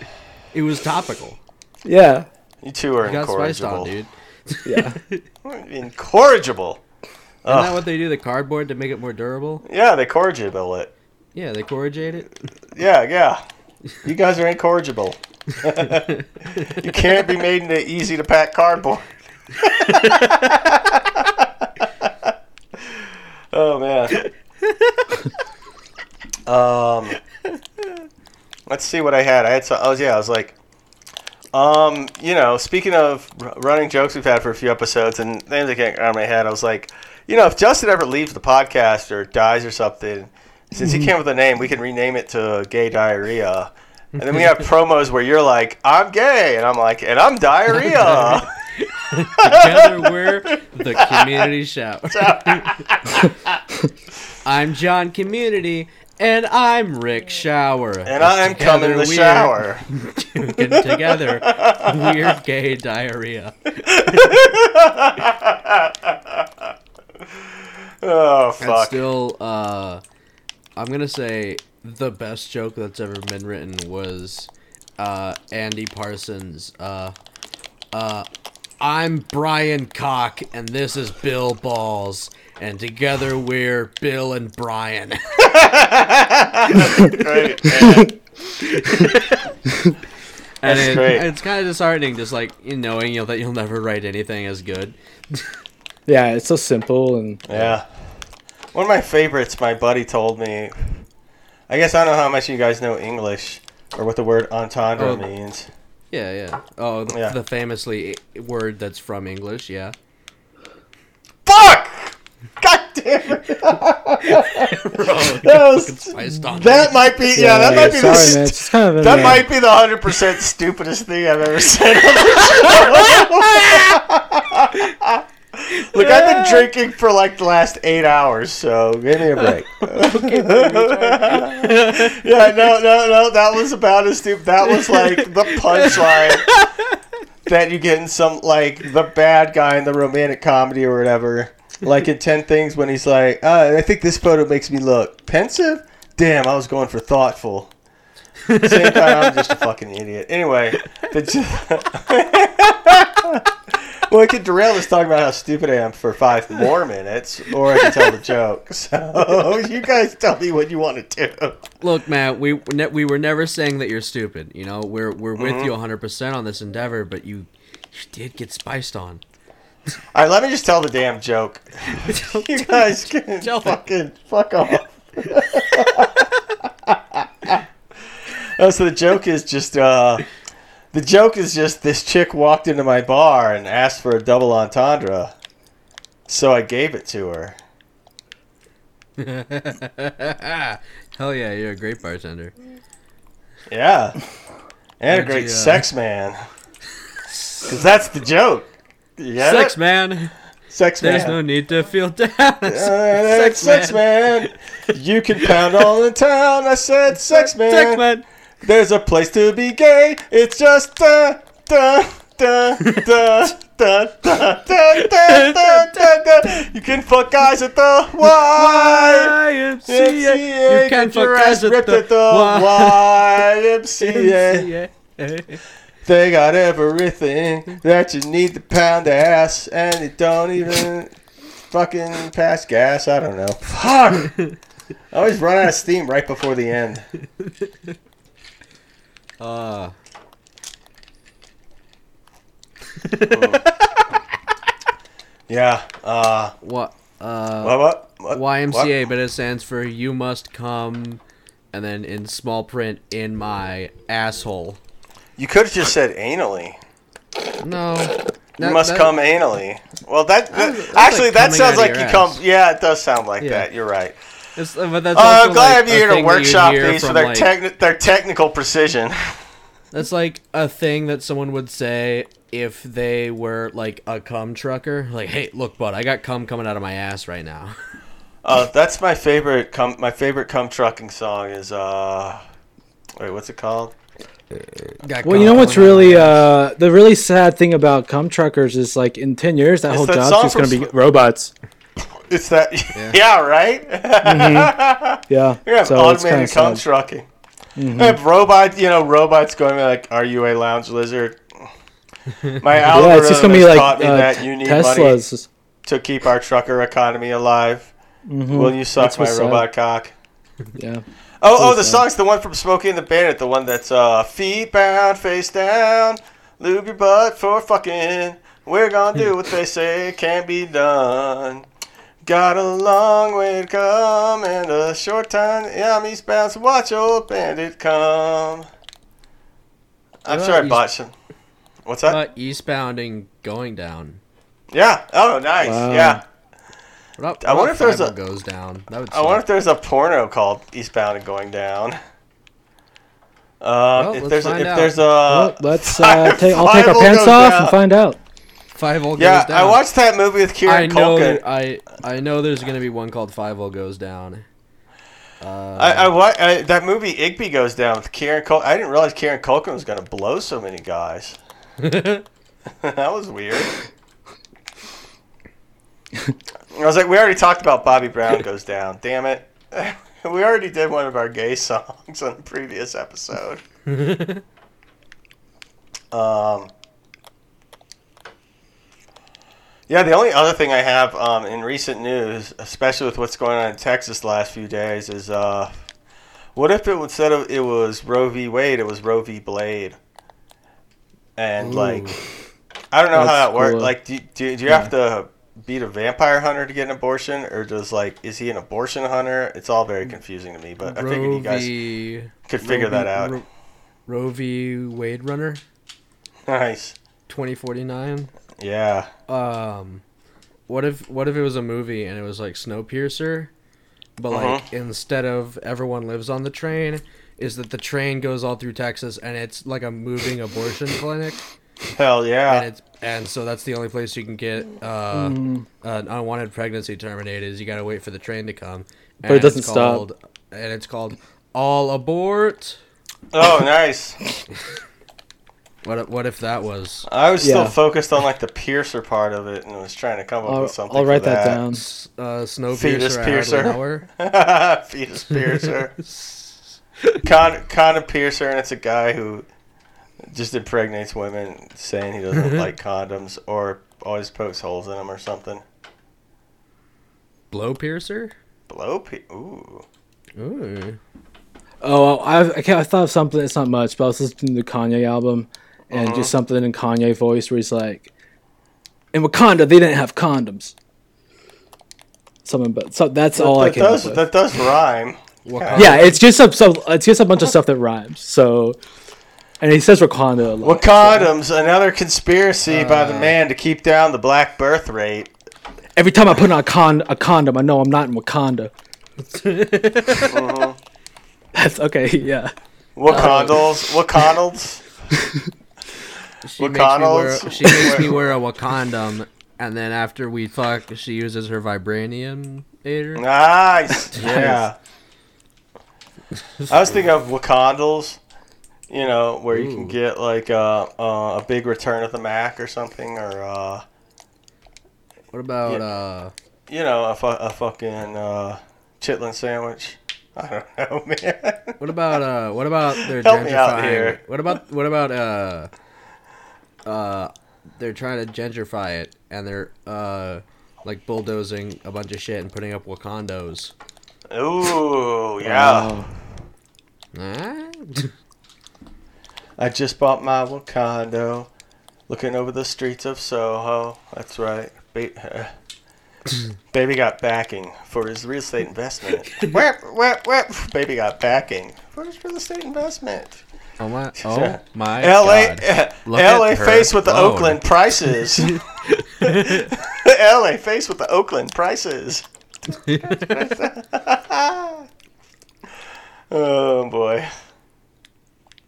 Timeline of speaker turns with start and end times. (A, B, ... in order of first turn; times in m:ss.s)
0:00.5-0:01.4 A
0:01.8-0:02.3 B
0:02.6-0:03.9 C
0:03.0-0:05.2 A
0:04.6-0:05.0 B
0:05.4-0:06.8 C
0:07.4-0:07.8 C
0:07.5-0:09.6 A
0:09.6-0:10.9 C
0:11.3-0:12.3 A
0:12.8-0:13.4 C
0:14.0-0:16.1 C
0:16.7-0:19.1 C
0:19.6-0:22.3 C
0:19.9-0:20.5 A
0:23.5-0:24.2 C
0:24.2-0:25.2 A
0:26.5-0:27.2 C
0:28.7-0:30.6 C
0:31.5-0:48.5 C
0:44.2-0:44.6 A
0:47.8-0:52.8 A
0:49.4-0:50.3 C
0:51.0-0:51.5 C
0:52.1-0:53.6 C
0:54.4-1:04.5 A
0:58.1-0:59.8 C
1:00.7-1:02.3 C
1:03.9-1:06.7 C
1:08.0-1:09.0 C
1:08.6-1:10.0 A
1:10.8-1:17.1 A
1:17.9-1:18.3 A
1:18.8-1:25.6 A
1:25.4-1:28.1 C
1:26.8-1:27.4 A
1:27.8-1:28.1 B
1:28.6-1:29.5 A
1:30.6-1:35.5 A
1:30.6-1:31.3 C
1:36.1-1:37.4 B
1:37.5-1:37.8 C
1:37.5-1:37.8 A
1:38.7-1:40.9 C
1:41.7-1:45.7 C
1:45.0-1:45.3 A
1:46.1-1:49.9 A
1:47.1-1:47.4 C
1:51.5-2:16.5 C
1:54.3-1:57.1 A
1:57.3-1:59.5 B
2:02.4-2:04.0 A
2:05.8-2:06.7 A
2:09.8-2:12.5 A
2:14.6-2:16.9 A
2:17.5-2:27.7 C
2:28.5-2:29.5 A
2:28.5-2:33.5 C
2:34.1-2:41.6 C
2:37.7-2:38.2 A
2:41.8-2:49.2 A
2:45.4-2:45.7 C
2:50.1-2:56.2 C
2:52.0-2:53.8 A
2:56.9-2:57.6 C
2:58.6-3:00.3 C
3:00.9-3:05.3 C
3:06.3-3:07.6 C
3:09.2-3:12.5 A
3:13.7-3:14.2 C
3:15.0-3:16.4 C
3:15.1-3:15.8 A
3:17.3-3:17.7 A
3:17.6-3:19.8 C
3:19.4-3:20.3 A
3:20.7-3:21.4 C
3:21.0-3:24.5 A
3:22.6-3:28.0 C
3:27.3-3:28.2 A
3:28.6-3:39.4 C
3:35.0-3:36.1 A
3:38.2-3:43.3 A
3:39.9-3:44.7 C
3:44.0-3:45.6 A
3:46.0-3:51.1 C
3:51.7-3:54.3 C
3:55.1-3:57.0 C
3:57.4-3:57.9 A
3:59.4-3:59.9 A
4:03.0-4:04.0 A
4:03.3-4:03.7 C
4:05.5-4:06.6 C
4:06.6-4:11.2 A
4:07.6-4:09.0 C
4:11.7-4:14.8 A
4:15.4-4:16.8 C
4:17.6-4:19.2 A
4:18.6-4:24.2 C
4:20.5-4:22.4 A
4:23.4-4:23.7 A
4:24.6-4:27.5 A
4:25.1-4:29.3 C
4:29.9-4:37.8 A
4:38.4-4:42.4 C
4:43.2-4:43.9 C
4:45.0-4:46.4 A
4:45.2-4:51.5 B
4:49.9-4:50.9 C
4:52.3-4:57.3 C
4:54.2-4:54.7 B
4:55.3-4:56.8 B
4:57.8-4:58.2 B
4:57.9-5:01.7 C
5:02.6-5:05.2 C
5:02.9-5:05.5 B
5:05.9-5:07.9 C
5:08.3-5:09.6 B
5:08.5-5:10.1 C
5:10.7-5:11.0 B
5:11.4-5:21.7 C
5:11.6-5:12.0 B
5:22.2-5:28.7 C
5:30.2-5:31.1 C
5:30.3-5:30.8 A
5:31.9-5:32.2 C
5:32.1-5:34.2 A
5:34.7-5:36.2 C
5:35.6-5:36.2 B
5:37.2-5:39.4 A
5:37.4-5:38.1 C
5:39.1-5:42.0 C
5:43.6-5:47.8 C
5:44.0-5:45.0 A
5:45.3-5:48.2 B
5:48.8-5:49.8 A
5:49.2-5:51.4 C
5:50.6-5:54.4 A
5:55.4-5:56.1 A
5:55.8-6:01.4 C
6:01.8-6:02.2 A
6:02.8-6:03.7 C
6:06.7-6:13.6 C
6:13.9-6:14.4 A
6:16.1-6:16.7 C
6:19.9-6:25.7 C
6:26.6-6:30.0 C
6:31.4-6:32.1 C
6:31.6-6:32.2 A
6:32.9-6:41.7 C
6:33.1-6:33.9 B
6:34.7-6:34.9 B
6:40.8-6:43.4 A
6:42.5-6:43.4 C
6:44.1-6:45.6 A
6:46.5-6:47.0 C
6:47.3-6:48.3 A
6:48.6-6:49.1 C
6:49.3-6:50.0 A
6:50.7-6:53.5 A
6:54.2-7:01.4 A
6:54.3-6:54.6 C
7:02.0-7:02.7 C
7:02.5-7:12.8 A
7:05.1-7:05.6 B
7:09.2-7:10.0 B
7:13.3-7:14.2 C
7:15.8-7:17.1 A
7:17.1-7:21.6 C
7:17.4-7:17.8 B
7:20.5-7:21.8 B
7:21.7-7:24.1 A
7:22.7-7:25.9 C
7:25.5-7:27.2 A
7:27.2-7:29.5 C
7:30.3-7:35.6 C
7:32.4-7:32.7 A
7:37.5-7:38.3 A
7:38.7-7:39.8 C
7:40.4-7:41.0 A
7:41.8-7:48.1 B
7:45.9-7:46.3 C
7:49.1-7:50.7 B
7:52.4-7:54.2 B
7:53.4-7:56.1 C
7:55.4-7:56.1 A
7:55.8-7:58.8 B
7:59.6-8:01.3 B
8:00.6-8:05.3 C
8:02.7-8:03.4 A
8:06.0-8:08.7 B
8:09.2-8:10.4 A
8:10.3-8:10.8 C
8:11.6-8:12.5 B
8:13.0-8:14.8 C
8:13.1-8:13.8 A
8:13.1-8:13.6 B
8:15.2-8:15.5 B
8:16.4-8:23.2 A
8:16.6-8:18.2 C
8:23.2-8:24.8 C
8:24.0-8:24.6 A
8:26.6-8:27.0 A
8:26.7-8:28.2 C
8:28.9-8:33.8 C
8:29.5-8:30.0 A
8:35.3-8:36.3 A
8:36.7-8:41.8 C
8:41.8-8:45.7 A
8:43.0-8:44.2 C
8:46.8-8:53.7 A
8:54.3-8:55.9 C
8:55.4-8:56.1 B
8:57.1-8:58.1 A
8:59.6-9:01.5 C
9:02.1-9:05.5 C
9:06.7-9:13.4 C
9:13.8-9:19.7 A
9:14.2-9:18.6 C
9:19.2-9:22.2 C
9:22.8-9:23.5 A
9:23.0-9:24.9 C
9:26.3-9:27.3 C